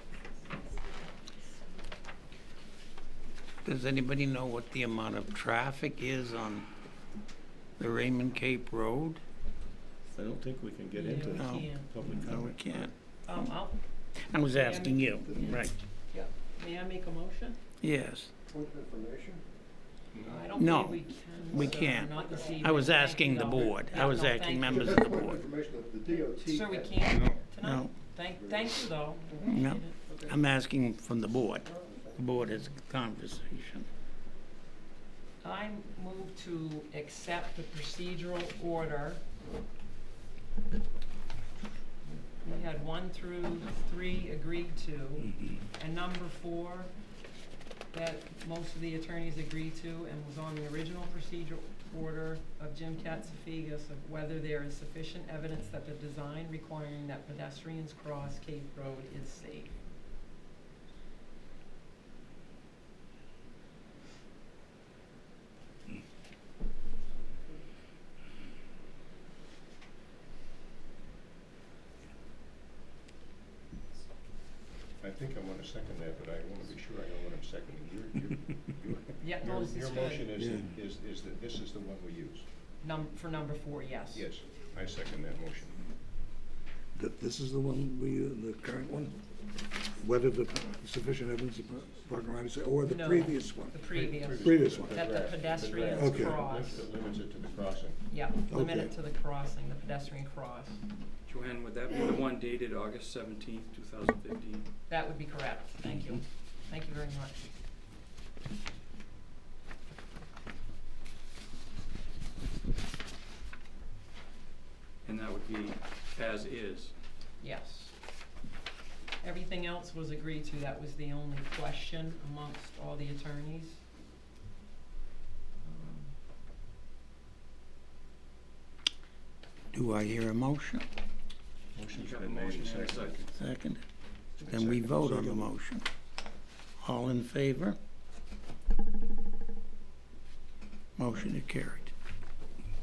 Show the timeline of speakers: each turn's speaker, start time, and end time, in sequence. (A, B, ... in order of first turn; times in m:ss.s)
0:03.6-0:06.7 A
0:07.8-0:09.2 A
0:10.1-0:12.9 B
0:10.9-0:12.2 C
0:11.3-0:12.9 A
0:13.2-0:13.8 C
0:14.3-0:15.8 A
0:14.5-0:17.6 C
0:17.8-0:18.3 A
0:18.5-0:19.4 D
0:20.1-0:20.5 B
0:20.3-0:25.0 C
0:20.6-0:25.4 A
0:24.7-0:27.0 D
0:26.2-0:30.0 C
0:27.0-0:27.4 B
0:27.6-0:27.9 A
0:29.5-0:33.9 A
0:35.4-0:39.2 C
0:42.2-0:46.9 C
0:47.9-0:59.8 C
1:15.0-1:22.4 B
1:19.2-1:20.3 C
1:20.4-1:20.7 E
1:22.8-1:24.3 C
1:24.1-1:25.8 B
1:26.9-1:29.1 E
1:30.0-1:33.8 E
1:32.8-1:36.9 C
1:33.9-1:38.0 B
1:34.4-1:35.1 E
1:36.0-1:36.4 E
1:38.1-1:40.8 C
1:38.5-1:38.9 E
1:41.3-1:44.6 F
1:44.9-1:47.4 C
1:55.0-1:56.9 F
1:57.4-1:57.9 C
1:59.2-2:03.8 C
2:05.6-2:06.1 C
2:09.7-2:10.8 A
2:11.7-2:13.3 B
2:11.8-2:13.3 F
2:13.4-2:13.8 A
2:14.4-2:15.9 A
2:14.4-2:15.2 B
2:16.8-2:17.8 A
2:21.0-2:21.9 A